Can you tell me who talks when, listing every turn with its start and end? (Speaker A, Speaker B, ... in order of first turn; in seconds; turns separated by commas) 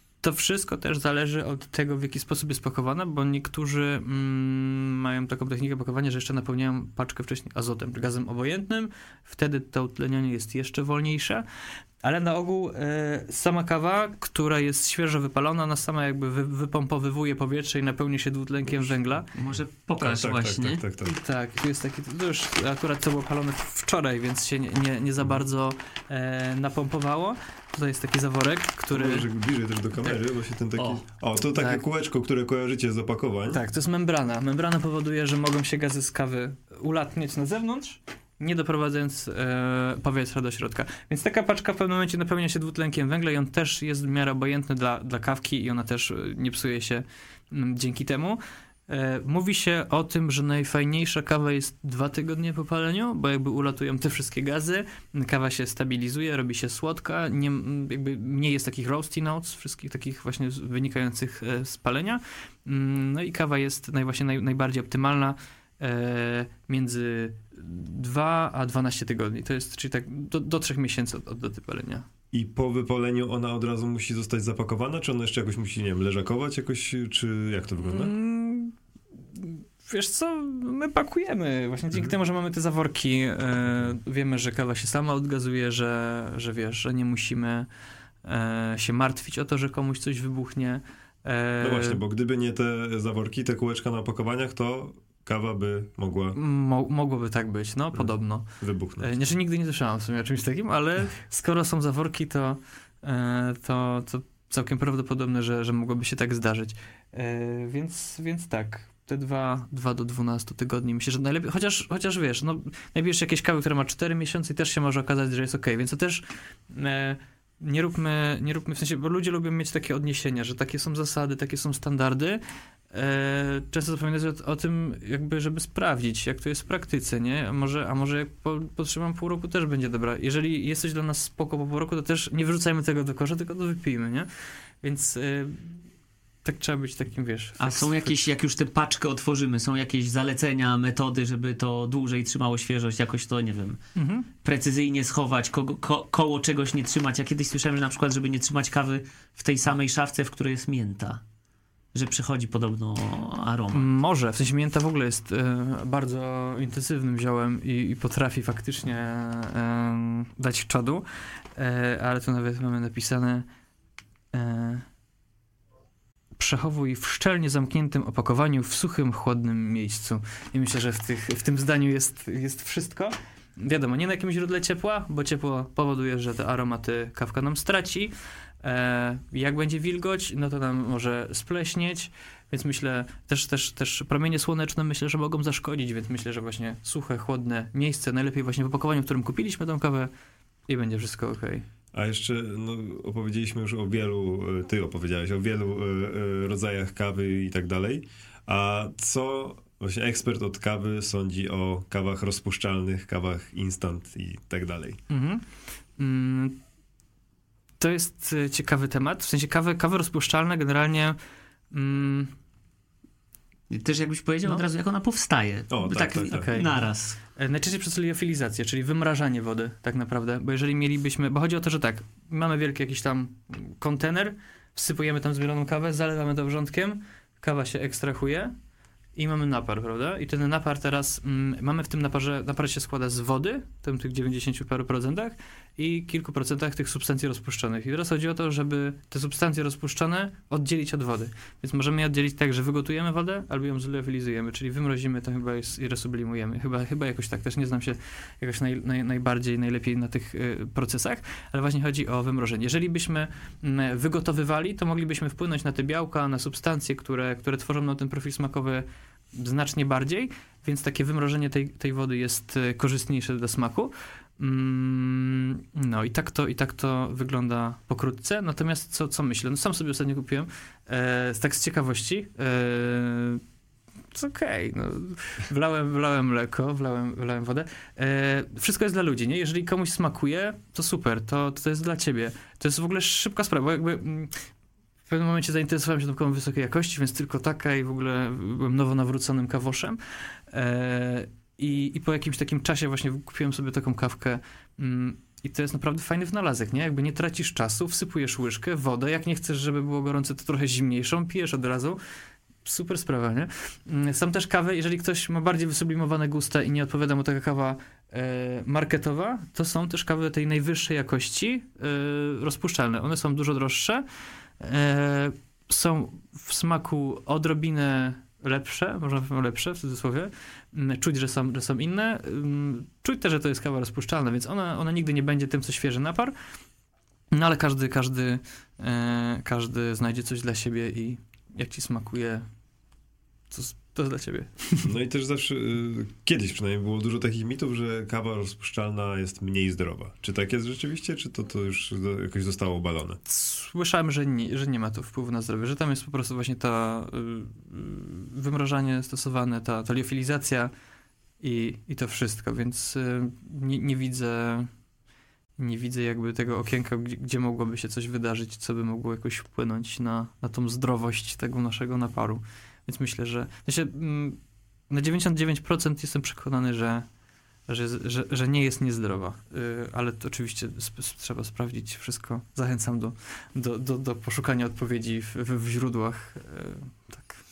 Speaker A: 0.2-11.4, Speaker A: 12.0-19.3, Speaker B: 19.3-20.8, Speaker C: 20.0-21.1, Speaker A: 21.0-29.3, Speaker C: 28.9-33.6, Speaker A: 31.6-31.8, Speaker A: 33.5-72.0, Speaker C: 72.3-78.1, Speaker A: 77.8-78.7, Speaker A: 79.4-87.7, Speaker A: 88.2-92.0, Speaker C: 91.6-96.4, Speaker A: 96.3-98.5, Speaker C: 97.9-99.2, Speaker A: 99.0-122.4, Speaker A: 122.9-134.3, Speaker A: 134.8-135.8, Speaker A: 136.4-138.2, Speaker B: 137.6-143.8, Speaker A: 143.9-144.3, Speaker B: 144.4-151.2, Speaker B: 151.9-153.9, Speaker A: 153.7-161.0, Speaker A: 161.6-163.4, Speaker A: 164.3-164.8, Speaker A: 166.4-190.1, Speaker A: 190.7-191.6, Speaker C: 191.9-205.0, Speaker A: 205.1-205.4, Speaker A: 206.0-206.6, Speaker A: 207.8-211.2, Speaker A: 211.7-212.3, Speaker B: 213.7-217.2, Speaker C: 215.7-216.5, Speaker A: 216.4-216.8, Speaker A: 217.3-228.5, Speaker A: 229.2-273.4, Speaker A: 274.1-284.3, Speaker A: 285.1-290.0, Speaker A: 290.5-302.0, Speaker A: 302.6-314.0, Speaker A: 314.6-326.3, Speaker A: 327.3-332.4, Speaker A: 333.5-334.9, Speaker C: 334.8-343.2, Speaker A: 343.3-350.7, Speaker A: 351.4-354.7, Speaker A: 355.6-364.4, Speaker A: 364.9-367.1, Speaker A: 367.7-377.4